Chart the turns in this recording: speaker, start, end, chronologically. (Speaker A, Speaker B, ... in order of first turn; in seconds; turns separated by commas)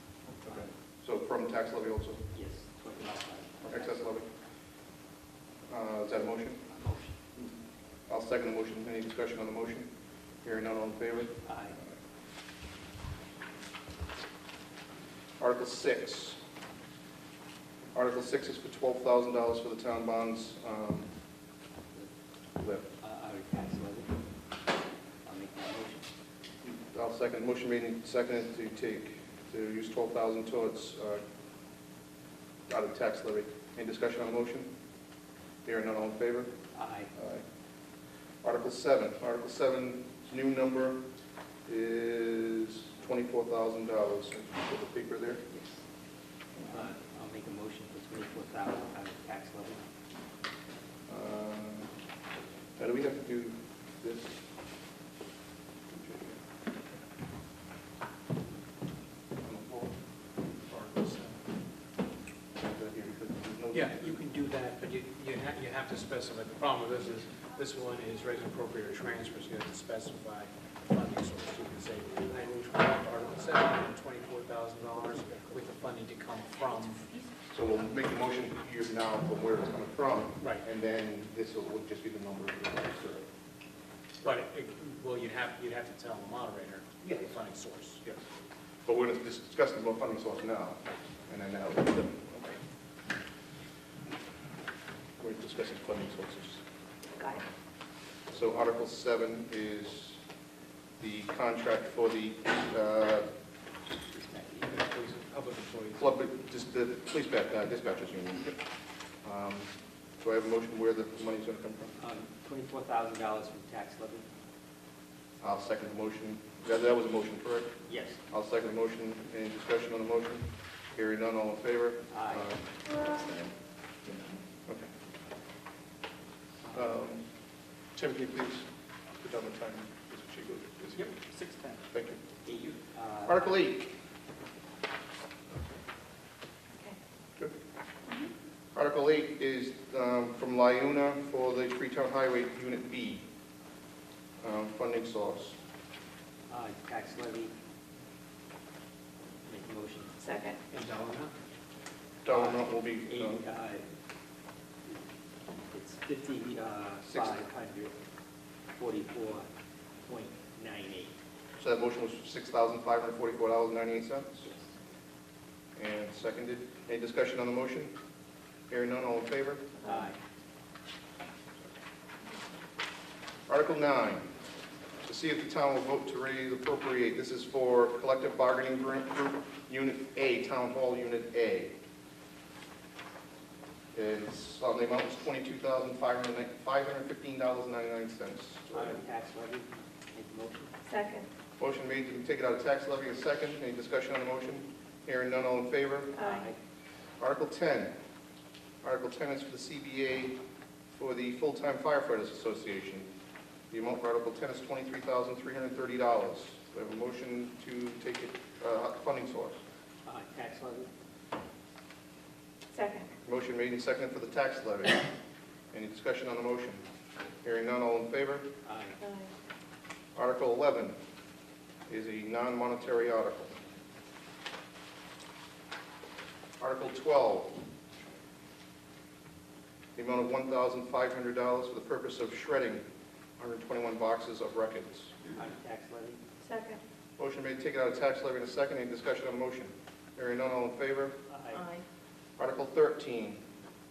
Speaker A: 0.5-2.2, Speaker B: 2.3-4.0, Speaker A: 3.7-4.3, Speaker A: 5.7-6.6, Speaker B: 6.7-7.2, Speaker A: 8.1-9.9, Speaker A: 10.4-11.4, Speaker B: 11.4-11.8, Speaker A: 15.4-16.4, Speaker A: 17.9-21.1, Speaker A: 22.6-22.9, Speaker B: 23.0-24.1, Speaker B: 25.2-26.1, Speaker A: 26.6-31.2, Speaker A: 32.7-34.7, Speaker A: 35.6-36.5, Speaker B: 36.7-37.1, Speaker A: 37.1-37.4, Speaker A: 38.4-41.0, Speaker A: 41.7-45.4, Speaker B: 46.7-49.8, Speaker A: 51.1-51.9, Speaker A: 52.8-54.4, Speaker A: 55.9-56.4, Speaker A: 59.4-59.9, Speaker C: 60.7-61.4, Speaker A: 62.6-64.2, Speaker C: 63.7-77.0, Speaker A: 77.5-83.2, Speaker C: 84.2-88.0, Speaker A: 87.0-87.3, Speaker A: 88.9-92.6, Speaker A: 95.2-96.6, Speaker A: 98.3-100.2, Speaker A: 101.0-103.3, Speaker B: 104.1-104.8, Speaker C: 104.7-106.1, Speaker A: 106.0-108.6, Speaker A: 109.2-111.9, Speaker B: 112.0-114.3, Speaker A: 115.4-117.7, Speaker B: 117.9-118.2, Speaker A: 118.3-123.5, Speaker B: 122.1-122.5, Speaker A: 124.1-124.9, Speaker A: 126.7-127.2, Speaker A: 128.0-128.7, Speaker A: 129.2-131.1, Speaker B: 131.0-131.8, Speaker A: 131.9-132.2, Speaker B: 132.4-133.6, Speaker A: 133.2-133.9, Speaker A: 138.8-143.2, Speaker A: 144.4-145.6, Speaker B: 146.5-147.5, Speaker B: 149.5-150.2, Speaker D: 150.2-150.6, Speaker C: 150.7-151.3, Speaker A: 152.2-153.4, Speaker B: 152.3-153.8, Speaker B: 155.7-157.9, Speaker A: 157.1-157.4, Speaker B: 158.8-159.5, Speaker B: 160.1-161.1, Speaker A: 161.6-164.5, Speaker A: 165.8-167.9, Speaker A: 168.7-169.7, Speaker B: 169.8-170.2, Speaker A: 173.5-174.3, Speaker A: 175.0-181.7, Speaker A: 183.9-189.0, Speaker B: 188.7-190.7, Speaker D: 190.9-191.3, Speaker A: 191.6-196.2, Speaker D: 196.1-196.5, Speaker B: 196.2-196.6, Speaker A: 197.2-197.9, Speaker A: 198.8-200.3, Speaker A: 201.0-203.1, Speaker A: 203.7-209.6, Speaker B: 210.1-210.9, Speaker D: 212.7-213.1, Speaker A: 213.2-215.0, Speaker A: 215.7-216.8, Speaker A: 217.4-218.5, Speaker B: 218.7-219.0, Speaker D: 219.0-219.3, Speaker A: 220.2-220.9, Speaker A: 221.9-223.6, Speaker A: 226.6-227.5, Speaker A: 230.0-232.8, Speaker A: 233.4-235.1, Speaker B: 235.3-236.2, Speaker D: 236.4-236.8, Speaker A: 237.2-241.2, Speaker B: 241.3-241.7, Speaker D: 241.5-241.8, Speaker A: 242.4-243.4